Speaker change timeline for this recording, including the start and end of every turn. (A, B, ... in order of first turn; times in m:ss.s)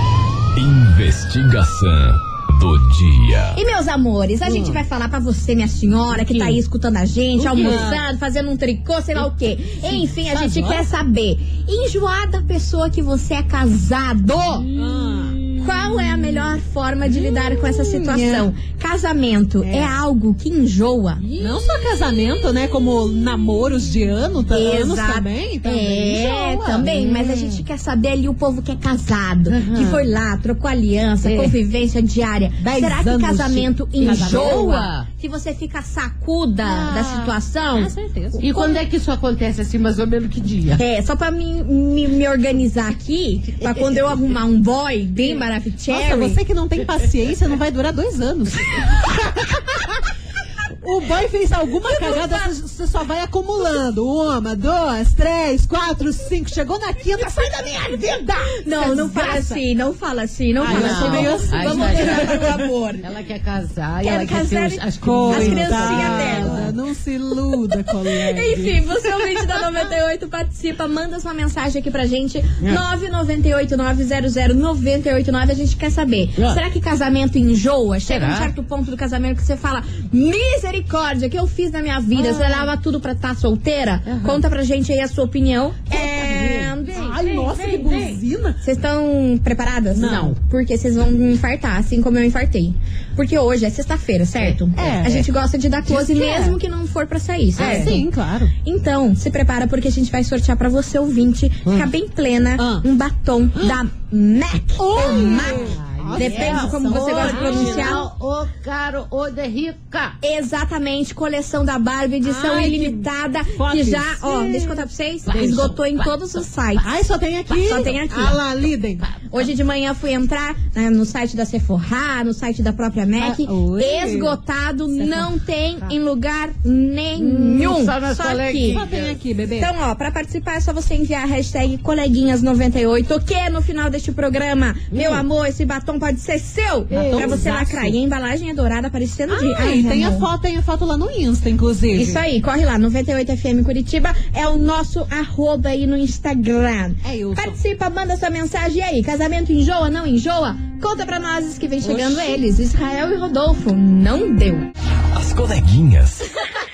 0:00.6-0:03.6 A
0:03.5-0:14.6 B
0:04.4-0:04.8 C
0:06.1-0:06.6 C
0:07.4-0:08.0 D
0:09.9-0:10.9 D
0:14.5-0:16.4 C
0:14.7-0:15.4 D
0:15.6-0:21.2 B
0:18.0-0:18.5 D
0:19.6-0:20.0 D
0:21.2-0:21.8 C
0:21.4-0:26.9 D
0:24.5-0:38.8 B
0:26.9-0:27.6 C
0:29.5-0:30.1 C
0:31.2-0:31.6 C
0:32.6-0:34.7 D
0:34.0-0:35.1 C
0:36.6-0:37.4 C
0:37.7-0:38.4 D
0:38.4-0:40.8 C
0:40.8-0:46.4 B
0:43.6-0:44.0 C
0:45.2-0:49.8 D
0:50.8-0:59.6 D
0:52.0-0:52.5 B
0:58.6-1:03.0 B
1:00.6-1:02.5 D
1:00.7-1:06.7 C
1:04.0-1:06.6 B
1:05.0-1:08.8 D
1:08.1-1:27.4 B
1:16.4-1:16.6 C
1:18.0-1:18.5 C
1:22.1-1:22.7 C
1:24.0-1:24.4 C
1:25.9-1:28.6 D
1:27.4-1:28.2 C
1:28.6-1:38.0 B
1:30.0-1:30.3 D
1:30.0-1:30.4 C
1:34.4-1:35.2 C
1:34.8-1:35.2 D
1:35.8-1:36.6 D
1:37.6-1:38.0 C
1:37.6-1:38.5 D
1:38.6-1:48.0 B
1:42.6-1:42.8 D
1:44.8-1:48.0 D
1:45.0-1:50.2 C
1:50.2-1:56.8 B
1:52.2-1:54.6 D
1:55.2-1:56.4 C
1:56.8-1:59.1 D
1:57.5-1:58.4 B
1:59.0-1:59.5 C
1:59.3-2:08.8 B
2:03.2-2:04.4 D
2:05.0-2:05.3 D
2:07.2-2:09.2 C
2:08.7-2:09.7 D
2:09.6-2:20.2 B
2:14.9-2:15.2 C
2:16.9-2:17.4 C
2:16.9-2:18.0 D
2:19.3-2:22.2 D
2:21.9-2:34.7 B
2:27.0-2:27.6 D
2:31.8-2:32.4 D
2:35.1-2:36.2 A